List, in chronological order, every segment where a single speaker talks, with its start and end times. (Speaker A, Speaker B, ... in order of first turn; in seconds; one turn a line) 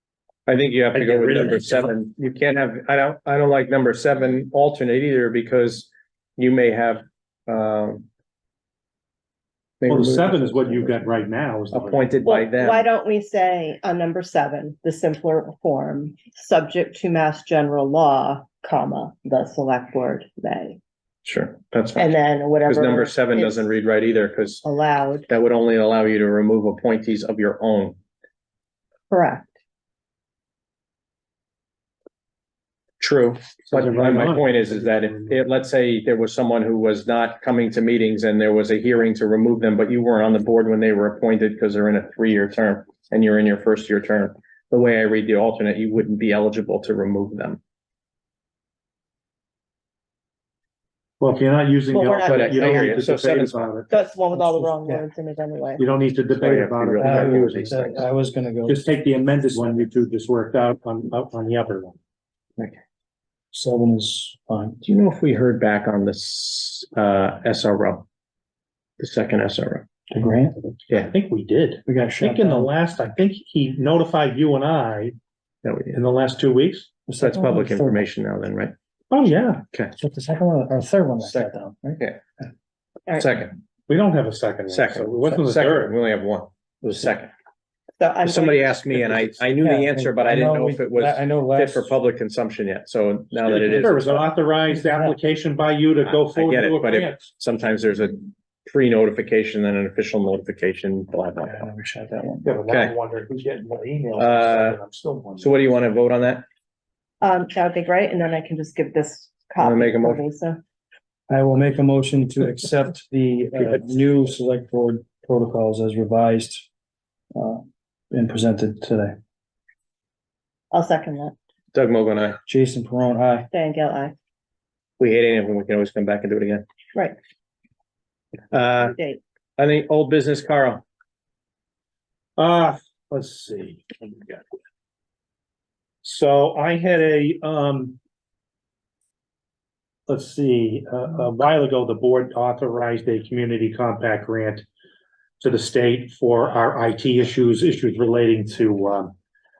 Speaker A: 0.5-8.1
Speaker B: 0.9-1.9
Speaker A: 9.8-11.1
Speaker B: 9.9-12.1
Speaker A: 11.7-12.9
Speaker C: 12.2-20.8
Speaker A: 21.2-22.1
Speaker C: 22.0-23.7
Speaker A: 22.6-24.6
Speaker C: 24.6-25.3
Speaker A: 25.3-28.0
Speaker C: 29.1-29.5
Speaker A: 33.0-47.6
Speaker B: 33.7-35.5
Speaker B: 51.2-53.9
Speaker C: 51.9-52.9
Speaker A: 52.2-53.7
Speaker C: 53.9-55.9
Speaker D: 54.3-55.0
Speaker B: 55.8-57.9
Speaker A: 56.3-58.1
Speaker D: 57.0-59.9
Speaker B: 58.7-62.0
Speaker D: 63.5-64.8
Speaker A: 64.8-68.1
Speaker A: 69.0-69.9
Speaker D: 70.1-70.7
Speaker B: 70.9-75.2
Speaker D: 71.9-72.7
Speaker A: 75.6-76.0
Speaker B: 75.9-76.9
Speaker D: 77.1-78.1
Speaker A: 77.2-78.7
Speaker B: 79.1-79.6
Speaker D: 80.0-82.0
Speaker A: 81.2-82.2
Speaker A: 83.2-83.6
Speaker B: 83.9-86.0
Speaker A: 84.7-87.3
Speaker C: 88.0-88.8
Speaker A: 88.2-94.3
Speaker B: 88.8-89.5
Speaker D: 89.6-92.0
Speaker B: 93.4-97.2
Speaker D: 94.7-95.2
Speaker A: 96.0-101.7
Speaker D: 101.4-102.5
Speaker B: 102.4-105.7
Speaker A: 102.7-103.0
Speaker A: 104.2-104.8
Speaker A: 105.4-106.5
Speaker C: 107.2-110.6
Speaker A: 109.6-110.2
Speaker D: 111.3-116.7
Speaker D: 117.3-119.2
Speaker C: 120.7-121.3
Speaker A: 121.7-122.4
Speaker D: 122.5-123.5
Speaker C: 123.5-124.2
Speaker A: 125.0-126.7
Speaker A: 128.5-128.9
Speaker C: 128.8-129.2
Speaker A: 129.6-130.8
Speaker B: 132.4-134.4
Speaker B: 136.0-138.0
Speaker B: 140.1-144.7
Speaker B: 145.4-149.1